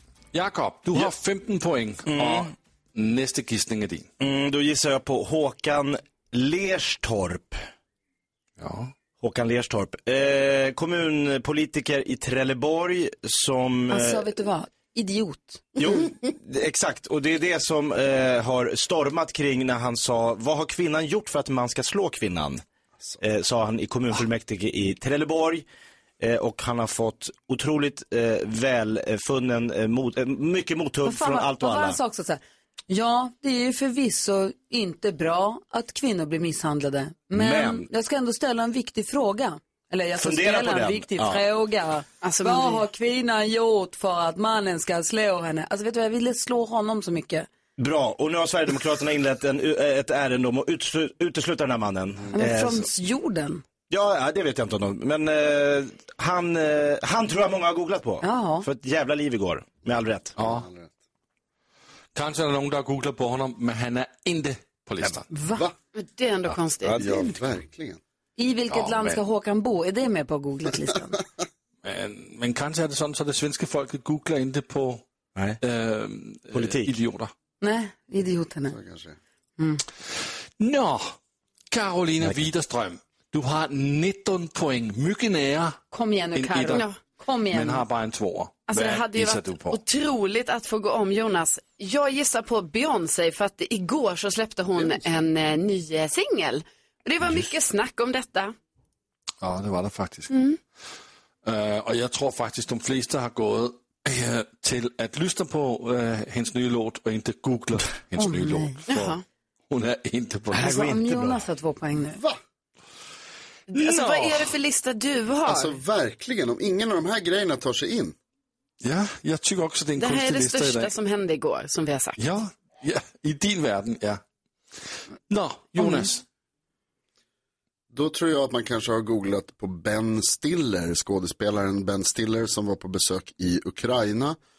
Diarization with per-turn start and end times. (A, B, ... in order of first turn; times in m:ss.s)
0:00.3-0:04.1 A
0:02.1-0:02.5 B
0:04.2-0:07.6 B
0:08.6-0:08.9 A
0:09.2-0:14.3 B
0:13.9-0:15.8 C
0:15.8-0:22.6 B
0:23.2-0:25.6 B
0:26.2-0:32.0 B
0:31.0-0:47.5 C
0:37.3-0:37.9 B
0:40.2-0:41.4 B
0:42.2-0:42.9 D
0:47.8-0:52.9 B
0:52.3-0:53.6 C
0:53.9-1:00.4 B
0:58.2-0:58.7 C
1:00.4-1:00.7 A
1:00.4-1:00.9 E
1:02.2-1:05.3 A
1:05.3-1:05.6 C
1:05.9-1:07.1 D
1:06.9-1:07.3 B
1:06.9-1:08.0 E
1:08.4-1:11.2 C
1:08.7-1:09.2 A
1:11.8-1:15.0 A
1:15.6-1:17.3 A
1:16.5-1:17.0 B
1:17.6-1:18.8 C
1:18.7-1:19.2 E
1:20.6-1:21.2 A
1:21.7-1:25.8 A
1:22.2-1:22.5 B
1:25.9-1:27.8 C
1:26.3-1:26.9 A
1:27.5-1:29.8 A
1:28.7-1:38.5 D
1:39.4-1:40.5 A
1:41.4-1:49.2 A
1:48.2-1:48.8 C
1:48.9-1:49.2 D
1:49.7-1:50.8 A
1:50.5-1:51.4 B
1:50.6-1:52.2 C
1:52.1-1:52.4 E
1:53.7-1:55.8 D
1:53.7-1:54.6 A
1:55.4-1:58.2 E
1:58.8-2:01.0 A
2:00.0-2:02.2 D
2:02.2-2:04.2 A
2:05.3-2:06.2 A
2:07.9-2:14.4 E